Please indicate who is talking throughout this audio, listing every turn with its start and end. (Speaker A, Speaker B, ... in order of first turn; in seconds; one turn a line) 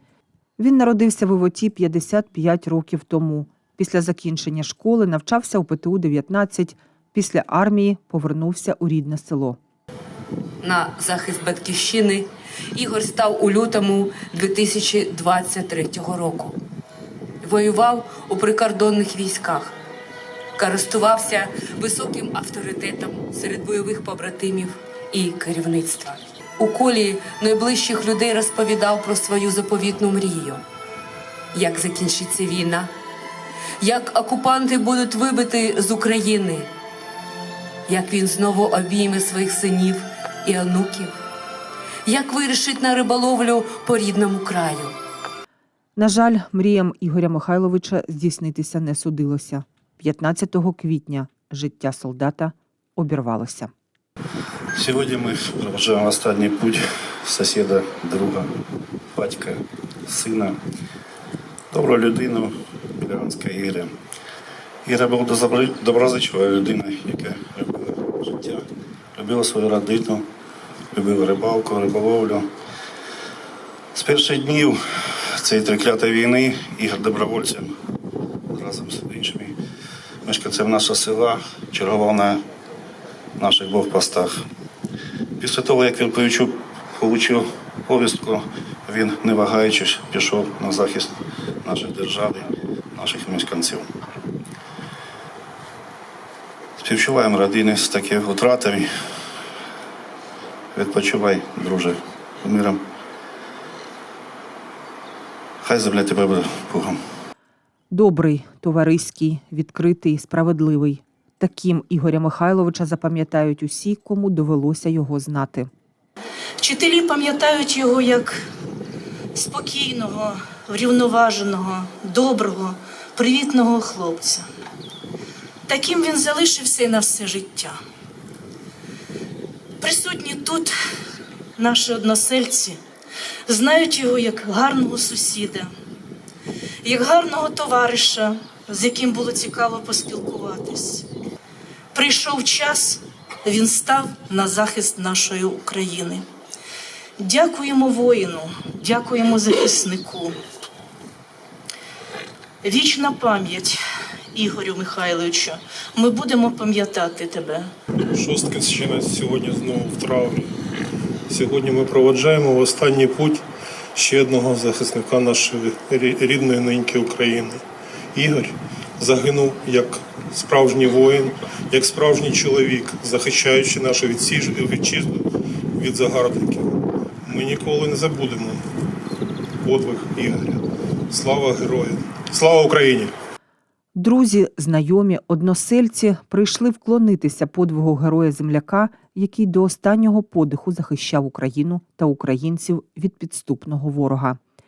Speaker A: 0.6-9.6
Speaker B: 10.6-16.6
Speaker B: 17.4-19.7
Speaker B: 20.6-30.6
Speaker B: 31.5-32.9
Speaker B: 33.8-36.7
Speaker B: 37.9-41.1
Speaker B: 42.0-44.9
Speaker A: 46.0-53.7
Speaker C: 54.7-58.5
Speaker C: 59.1-60.6
Speaker C: 61.7-63.9
Speaker C: 64.8-70.2
Speaker C: 70.9-72.5
Speaker C: 73.9-77.7
Speaker C: 78.5-79.5
Speaker C: 80.2-82.4
Speaker C: 83.4-84.4
Speaker C: 85.4-93.9
Speaker C: 96.8-98.9
Speaker C: 100.7-102.8
Speaker C: 105.6-107.0
Speaker A: 107.9-115.7
Speaker D: 116.6-118.4
Speaker D: 119.3-124.5
Speaker D: 125.7-127.8
Speaker D: 129.8-130.7
Speaker D: 131.6-132.8
Speaker D: 133.5-135.7
Speaker D: 136.8-141.1
Speaker D: 141.9-146.2
Speaker D: 147.2-150.4
Speaker D: 152.6-153.8
Speaker D: 154.3-157.7
Speaker E: 158.1-160.5
Speaker E: 161.3-163.4
Speaker E: 163.9-167.6
Speaker E: 168.1-175.2
Speaker E: 175.8-176.7
Speaker E: 177.2-178.6
Speaker E: 179.6-183.1
Speaker A: 183.9-194.4